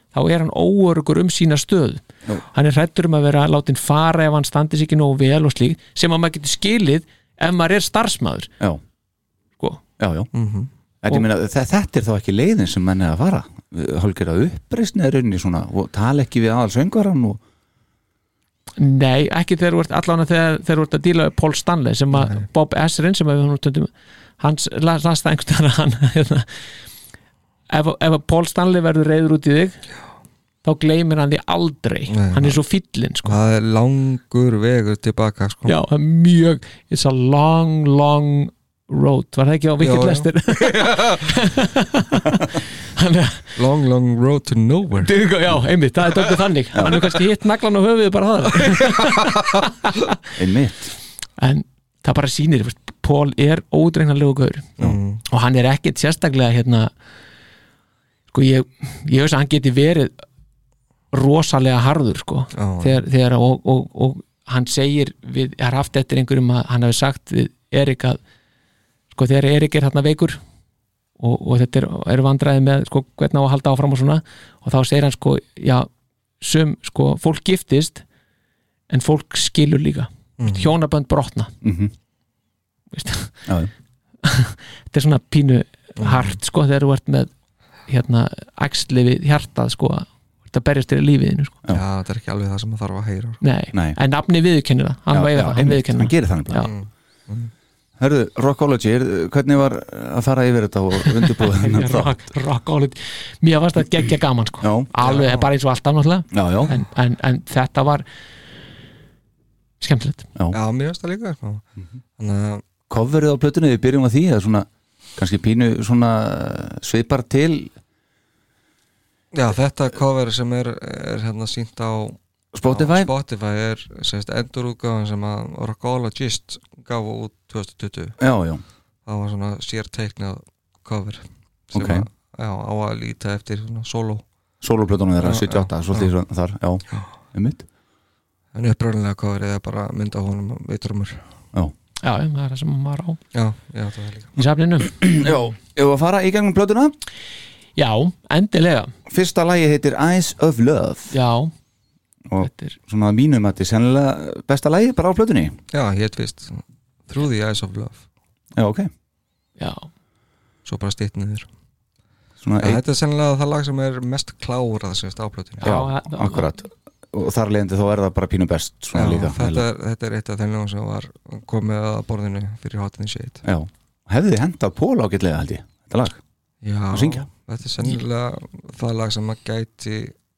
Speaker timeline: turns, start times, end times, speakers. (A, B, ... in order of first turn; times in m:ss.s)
0:00.1-0:08.5 A
0:10.0-0:10.3 B
0:10.3-0:10.7 C
0:11.0-0:17.4 B
0:18.8-0:23.9 A
0:22.1-0:22.5 C
0:24.4-0:26.5 A
0:27.7-0:29.8 A
0:30.6-0:33.4 A
0:32.1-0:32.6 C
0:33.2-0:35.8 C
0:35.7-0:43.6 A
0:39.8-0:41.3 C
0:43.6-0:45.1 C
0:45.0-0:50.1 A
0:46.7-0:47.2 B
0:50.4-0:50.9 B
0:51.4-0:54.7 A
0:54.8-0:55.2 C
0:55.3-0:56.9 A
0:58.3-1:00.2 A
1:01.1-1:08.2 A
1:02.6-1:03.0 C
1:09.1-1:10.4 A
1:11.2-1:15.9 A
1:16.4-1:18.0 A
1:18.9-1:21.5 A
1:20.4-1:20.7 C
1:21.6-1:21.9 B
1:22.9-1:23.5 A
1:24.2-1:27.3 A
1:26.0-1:26.4 C
1:27.9-1:31.6 A
1:31.7-1:33.4 C
1:33.4-1:36.7 A
1:33.7-1:34.0 B
1:35.1-1:36.7 B
1:36.6-1:37.5 C
1:38.0-1:42.2 B
1:41.2-1:48.0 A
1:44.6-1:44.9 B
1:45.0-1:45.5 C
1:46.3-1:46.7 B
1:49.8-1:50.3 A
1:50.5-1:51.6 C
1:52.2-1:52.6 C
1:52.9-1:57.7 B
1:59.3-2:02.2 C
2:02.5-2:03.1 B
2:02.7-2:08.2 C
2:08.2-2:08.6 B
2:09.1-2:14.2 C
2:11.7-2:12.1 B
2:14.6-2:17.6 B
2:15.2-2:16.1 C
2:18.5-2:21.2 C
2:22.0-2:23.2 A
2:23.3-2:24.4 C
2:24.4-2:25.3 A
2:25.0-2:26.9 B
2:27.8-2:28.9 A
2:29.1-2:31.2 B
2:31.1-2:31.5 A
2:32.3-2:35.6 B
2:32.4-2:32.8 A
2:35.7-2:38.1 C
2:38.6-2:38.9 B
2:39.6-2:39.9 A
2:40.7-2:41.5 C
2:42.4-2:42.8 B
2:42.6-2:45.7 C
2:45.6-2:46.6 A
2:45.6-2:49.6 B
2:49.0-2:53.4 C
2:53.4-2:56.2 B
2:56.6-3:00.1 C
2:56.9-2:57.3 B